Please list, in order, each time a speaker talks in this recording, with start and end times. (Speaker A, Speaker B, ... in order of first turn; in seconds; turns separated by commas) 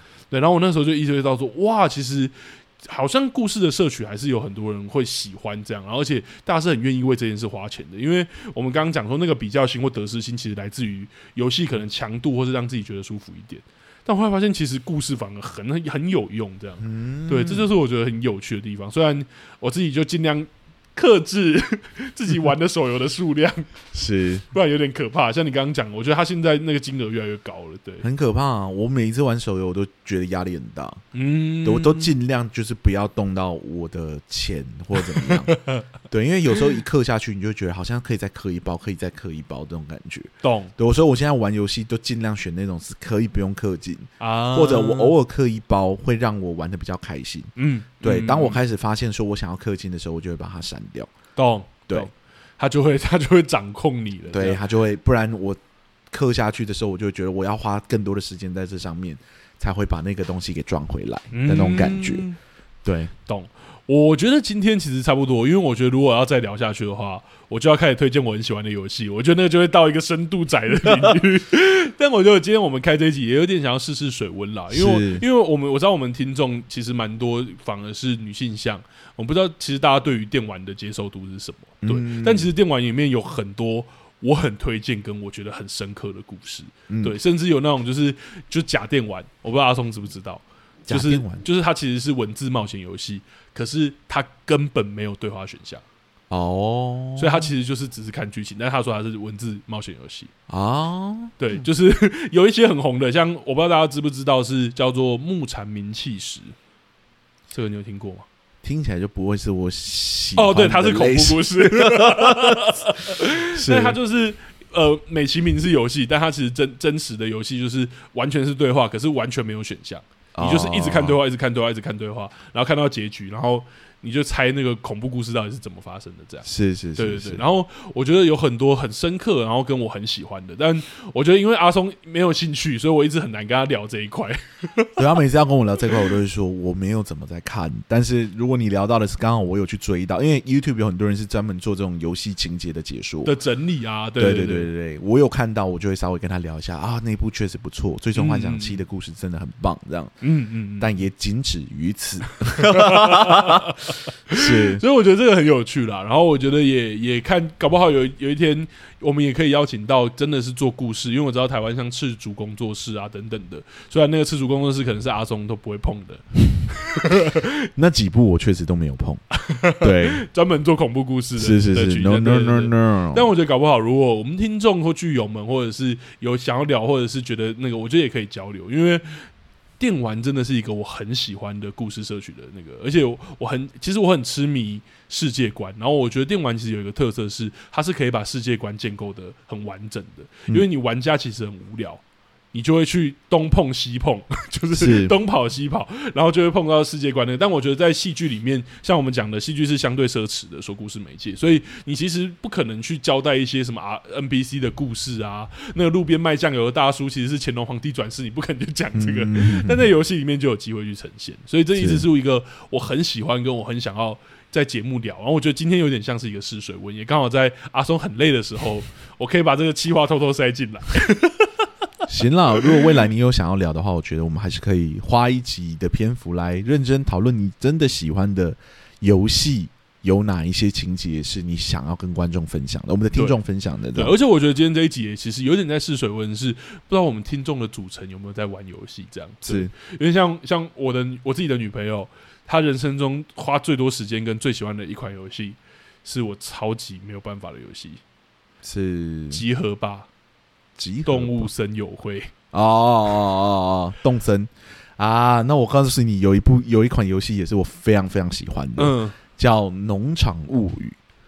Speaker A: 0.3-23.7, Speaker B: 16.8-17.7, Speaker B: 23.9-24.4, Speaker A: 24.5-28.1, Speaker B: 28.0-31.0, Speaker A: 31.1-32.1, Speaker B: 31.6-35.6, Speaker A: 35.0-35.8, Speaker B: 36.1-47.5, Speaker A: 40.4-40.7, Speaker A: 44.2-45.1, Speaker A: 47.6-48.6, Speaker B: 48.0-51.1, Speaker A: 51.4-54.6, Speaker B: 54.3-55.6, Speaker B: 56.1-62.2, Speaker A: 61.3-62.4, Speaker B: 62.9-63.1, Speaker A: 63.3-95.8, Speaker B: 70.8-71.1, Speaker B: 74.7-75.2, Speaker B: 81.8-82.5, Speaker B: 86.9-87.2, Speaker B: 90.9-91.4, Speaker B: 96.3-97.5, Speaker A: 97.2-100.3, Speaker B: 100.5-101.3, Speaker A: 101.4-106.5, Speaker A: 107.5-108.3, Speaker B: 108.6-112.7, Speaker A: 110.4-135.0, Speaker B: 113.5-114.0, Speaker B: 120.4-121.2, Speaker B: 126.5-127.5, Speaker B: 135.0-143.3, Speaker A: 143.2-144.7, Speaker B: 144.2-150.1, Speaker A: 148.1-148.8, Speaker A: 150.2-150.9, Speaker B: 150.8-153.8, Speaker A: 152.6-167.5, Speaker B: 154.3-154.8, Speaker B: 167.8-169.2, Speaker A: 169.4-179.2, Speaker B: 169.8-170.2, Speaker B: 171.4-173.3, Speaker A: 179.8-192.0, Speaker A: 192.5-221.5, Speaker B: 194.7-195.1, Speaker B: 208.9-209.9, Speaker B: 211.8-212.1, Speaker B: 222.1-234.2, Speaker A: 233.9-248.0, Speaker B: 239.4-239.7, Speaker B: 248.6-249.4, Speaker A: 249.3-250.1, Speaker B: 250.8-251.5, Speaker A: 251.1-252.3, Speaker B: 252.5-261.0, Speaker A: 258.8-259.2